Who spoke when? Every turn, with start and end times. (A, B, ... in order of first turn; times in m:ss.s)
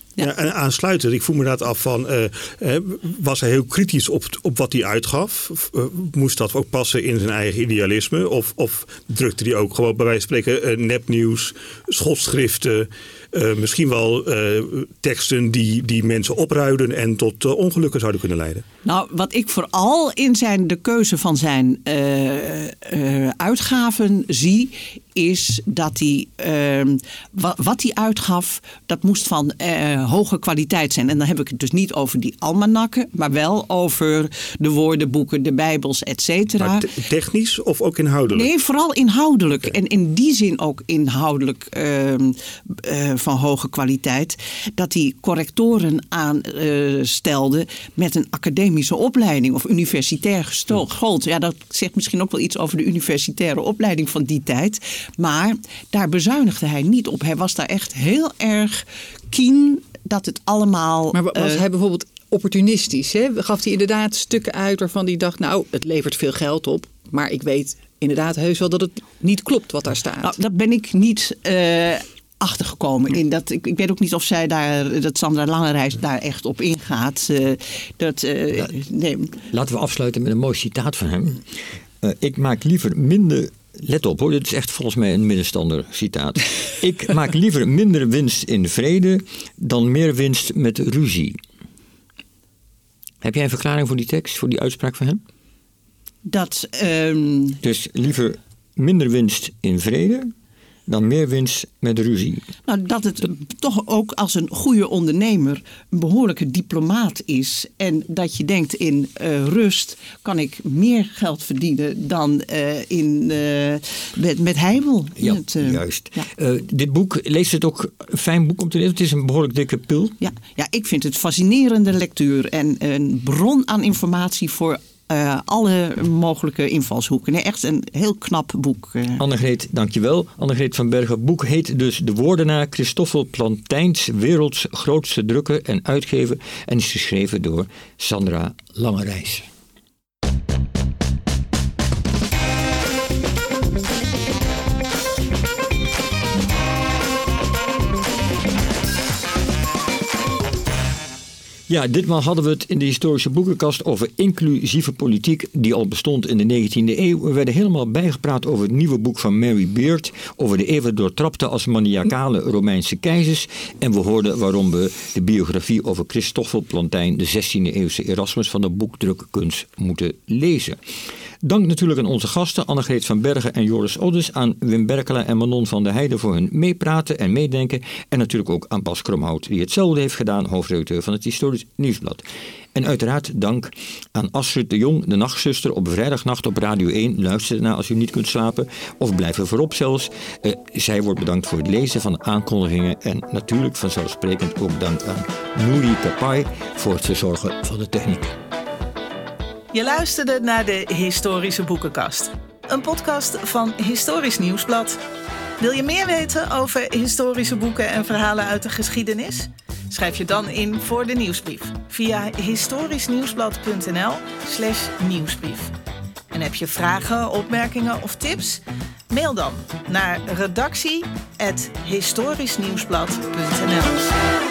0:00.2-0:18.6 A
0:18.8-0:36.9 B
0:36.6-0:38.5 A
0:38.3-1:01.6 B
1:01.1-1:10.3 C
1:10.2-1:19.4 B
1:19.5-1:21.4 D
1:22.0-1:31.4 D
1:33.2-1:35.2 D
1:36.2-1:37.6 B
1:37.6-1:40.3 D
1:40.9-1:42.5 D
1:42.7-1:56.3 B
1:55.2-2:00.2 D
2:00.2-2:09.2 B
2:09.2-2:19.5 D
2:31.7-2:50.8 D
2:51.4-3:02.2 D
3:02.7-3:18.3 D
3:19.7-3:25.0 E
3:25.6-3:35.7 E
3:36.3-3:44.1 E